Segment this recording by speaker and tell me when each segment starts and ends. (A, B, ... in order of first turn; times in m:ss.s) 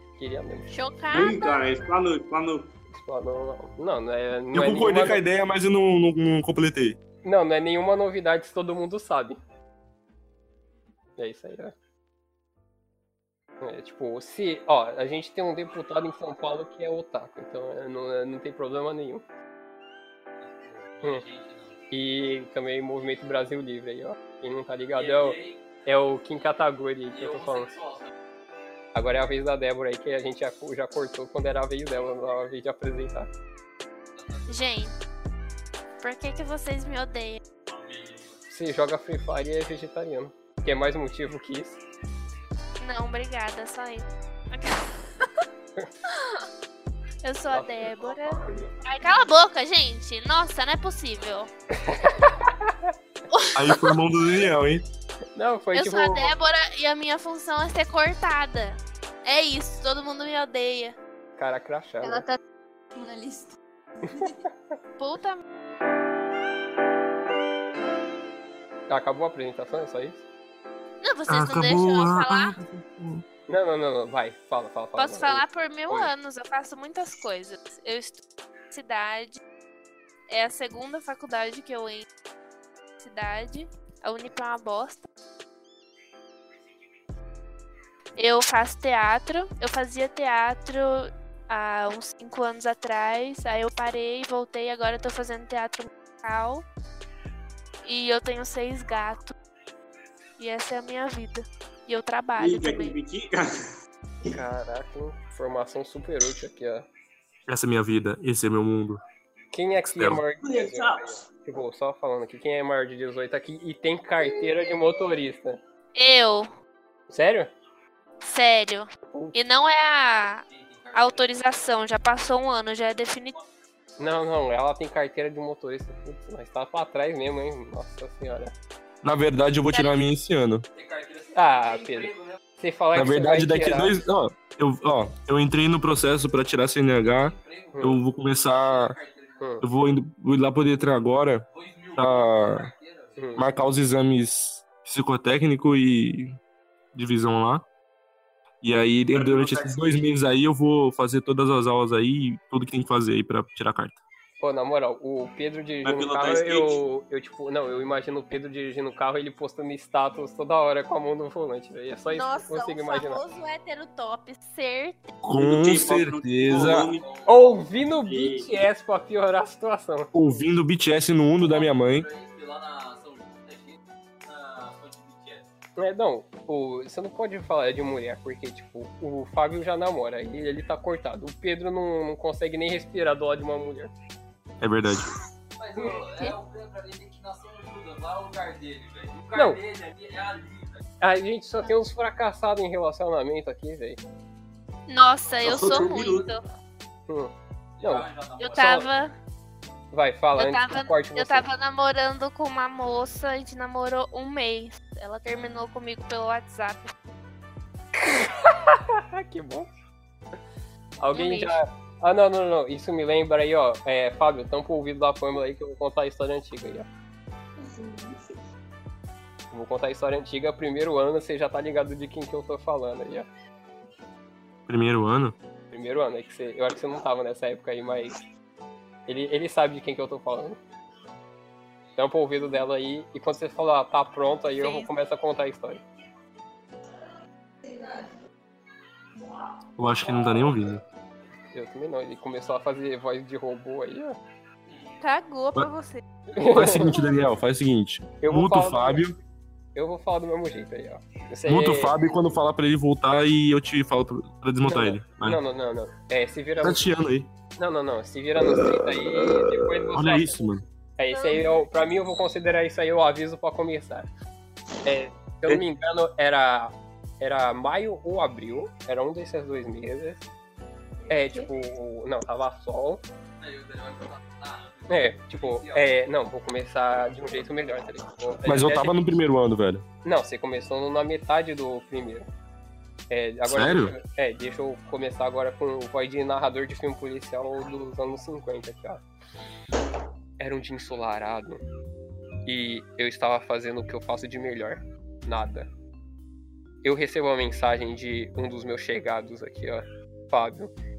0:00.2-0:00.7 A
0:00.7-0:01.6 B
0:01.1-0:02.7 C
0:02.9-0:05.2 A
0:04.5-0:07.0 D
0:07.2-0:09.4 A
0:11.2-0:11.7 A
0:13.6-0:19.2 A
0:20.4-0:21.8 E
0:21.9-0:27.7 A
0:24.9-0:25.6 E
0:27.1-0:28.1 E
0:28.9-0:33.3 A
0:34.1-0:34.6 E
0:34.5-0:34.9 B
0:36.0-0:37.4 B
0:37.7-0:38.4 E
0:38.5-0:41.8 A
0:42.8-0:45.4 B
0:46.1-0:46.4 B
0:47.2-0:51.5 B
0:47.5-0:48.7 A
0:51.7-0:52.9 A
0:53.3-0:54.0 B
0:53.5-0:54.8 D
0:55.3-0:56.3 A
0:55.7-1:00.9 B
1:01.4-1:02.2 A
1:02.0-1:02.4 F
1:02.9-1:03.5 F
1:04.0-1:04.4 F
1:05.0-1:05.4 B
1:08.9-1:10.2 A
1:11.0-1:12.6 B
1:11.3-1:13.2 D
1:13.5-1:16.1 A
1:15.0-1:18.2 B
1:18.7-1:19.4 B
1:20.3-1:22.1 B
1:23.0-1:25.0 B
1:28.1-1:36.6 B
1:37.8-1:39.3 B
1:40.4-1:43.0 B
1:42.4-1:43.6 C
1:44.2-1:46.9 A
1:47.5-1:49.0 D
1:49.5-1:55.6 A
1:49.8-1:50.2 D
1:50.4-1:51.2 C
1:55.9-1:56.5 B
1:57.1-1:57.5 A
1:58.2-2:00.4 B
2:00.5-2:01.3 E
2:00.9-2:03.4 B
2:04.0-2:08.5 A
2:09.0-2:10.6 D
2:10.7-2:12.4 E
2:11.3-2:14.0 A
2:12.9-2:19.0 D
2:17.0-2:19.6 E
2:17.7-2:18.0 A
2:19.4-2:19.6 A
2:19.6-2:22.7 D
2:21.5-2:23.2 E
2:23.2-2:23.4 A
2:23.4-2:26.4 D
2:26.9-2:27.6 D
2:28.6-2:34.0 D
2:29.1-2:30.0 C
2:34.4-2:43.2 A
2:35.8-2:36.8 C
2:42.1-2:45.1 B
2:45.2-2:46.9 D
2:45.4-2:47.0 C
2:46.5-2:47.6 E
2:47.2-2:50.4 A
2:48.0-2:48.5 C
2:50.1-2:52.1 D
2:51.4-2:55.5 E
2:55.8-3:03.9 A
3:04.6-3:05.1 D
3:05.6-3:10.8 E
3:09.3-3:09.6 A
3:11.0-3:14.0 A
3:14.9-3:16.4 B
3:15.4-3:16.3 C
3:17.1-3:18.1 A
3:17.8-3:19.0 E
3:18.4-3:19.1 B
3:19.9-3:21.4 A
3:20.4-3:26.9 B
3:28.0-3:29.7 A
3:31.0-3:36.9 A
3:31.1-3:31.6 B
3:37.6-3:38.2 F
3:39.5-3:43.3 A
3:44.7-3:45.3 D
3:45.7-3:48.2 A
3:49.1-3:50.6 A
3:52.0-3:55.8 A
3:54.6-3:54.9 B
3:59.8-4:00.8 D
4:01.5-4:04.2 A
4:05.0-4:06.0 B
4:06.3-4:07.0 A
4:06.5-4:09.2 D
4:08.2-4:09.1 A
4:09.7-4:11.9 A
4:11.4-4:15.4 D
4:14.6-4:16.8 A
4:16.6-4:17.3 D
4:17.6-4:20.4 A
4:18.5-4:20.6 D
4:21.0-4:24.1 A
4:21.1-4:21.6 F
4:24.8-4:30.2 A
4:31.1-4:33.0 A
4:31.1-4:31.5 F
4:33.4-4:35.9 E
4:34.9-4:39.2 A
4:38.4-4:39.8 D
4:40.0-4:42.3 A
4:43.1-4:49.0 A
4:43.5-4:44.0 D
4:50.4-4:51.6 A
4:52.4-4:55.7 A
4:56.8-5:00.7 A